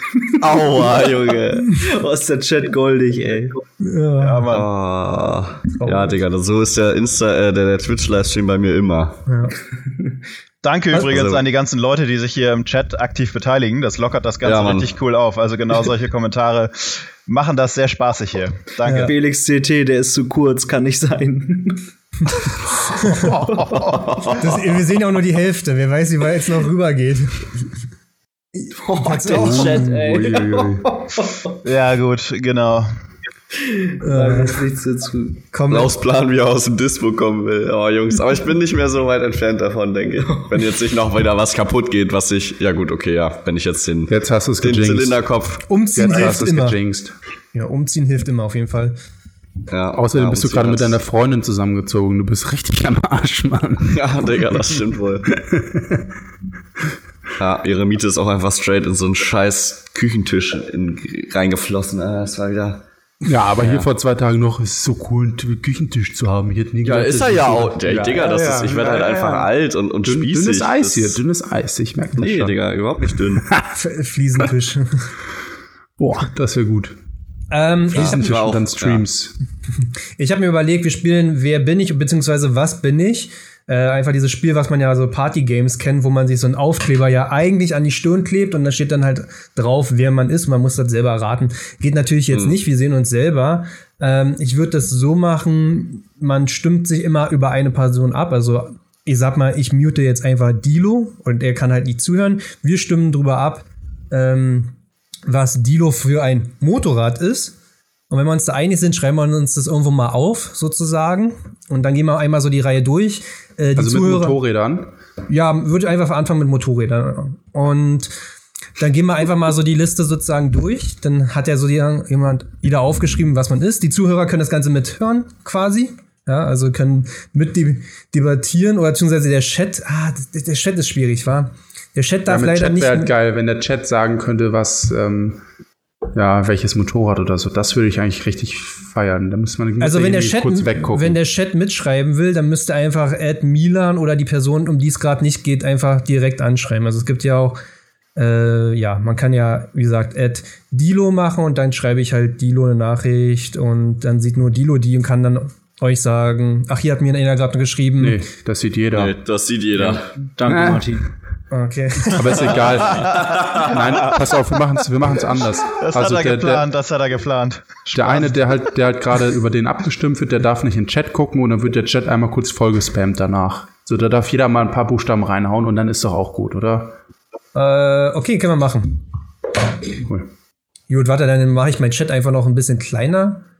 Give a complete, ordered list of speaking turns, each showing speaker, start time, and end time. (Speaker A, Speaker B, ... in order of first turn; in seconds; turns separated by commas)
Speaker A: 0.4-1.8, Speaker B: 1.7-3.6, Speaker C: 3.8-4.5, Speaker D: 4.2-4.7, Speaker A: 4.5-9.2, Speaker C: 5.8-6.2, Speaker C: 9.3-9.6, Speaker D: 10.6-19.1, Speaker A: 10.9-11.4, Speaker A: 14.4-14.9, Speaker C: 18.8-19.1, Speaker B: 18.9-21.9, Speaker C: 23.0-23.4, Speaker B: 23.2-24.3, Speaker A: 23.9-24.3, Speaker C: 24.4-27.5, Speaker C: 28.6-29.9, Speaker B: 28.7-31.5, Speaker E: 29.4-30.9, Speaker D: 31.6-32.9, Speaker B: 33.6-35.4, Speaker C: 34.0-34.6, Speaker C: 35.5-35.9, Speaker A: 35.7-45.6, Speaker E: 44.1-45.2, Speaker C: 45.7-46.8, Speaker E: 45.9-47.1, Speaker C: 47.5-49.0, Speaker A: 49.7-51.0, Speaker E: 49.9-54.0, Speaker A: 53.9-55.3, Speaker E: 55.3-56.1, Speaker A: 57.4-62.8, Speaker E: 63.2-69.5, Speaker A: 63.6-63.9, Speaker A: 66.8-71.2, Speaker E: 70.0-72.5, Speaker A: 72.2-73.5, Speaker E: 73.1-73.7, Speaker C: 73.7-75.1, Speaker E: 76.0-77.0, Speaker C: 77.5-78.2, Speaker E: 77.9-79.4, Speaker A: 77.9-79.0, Speaker C: 80.2-104.7, Speaker A: 92.3-92.6, Speaker C: 105.3-107.5, Speaker C: 108.1-114.4, Speaker E: 113.8-114.9, Speaker C: 115.3-118.1, Speaker C: 118.8-133.1, Speaker E: 132.3-135.4, Speaker E: 136.1-141.2, Speaker C: 139.8-147.6, Speaker C: 148.2-158.2, Speaker E: 158.0-159.2, Speaker A: 158.9-160.2, Speaker B: 159.8-161.1, Speaker E: 160.5-160.9, Speaker C: 161.5-162.6, Speaker E: 162.1-166.7, Speaker A: 163.0-163.7, Speaker D: 165.8-168.3, Speaker E: 167.9-177.0, Speaker C: 177.6-179.0, Speaker C: 180.9-183.4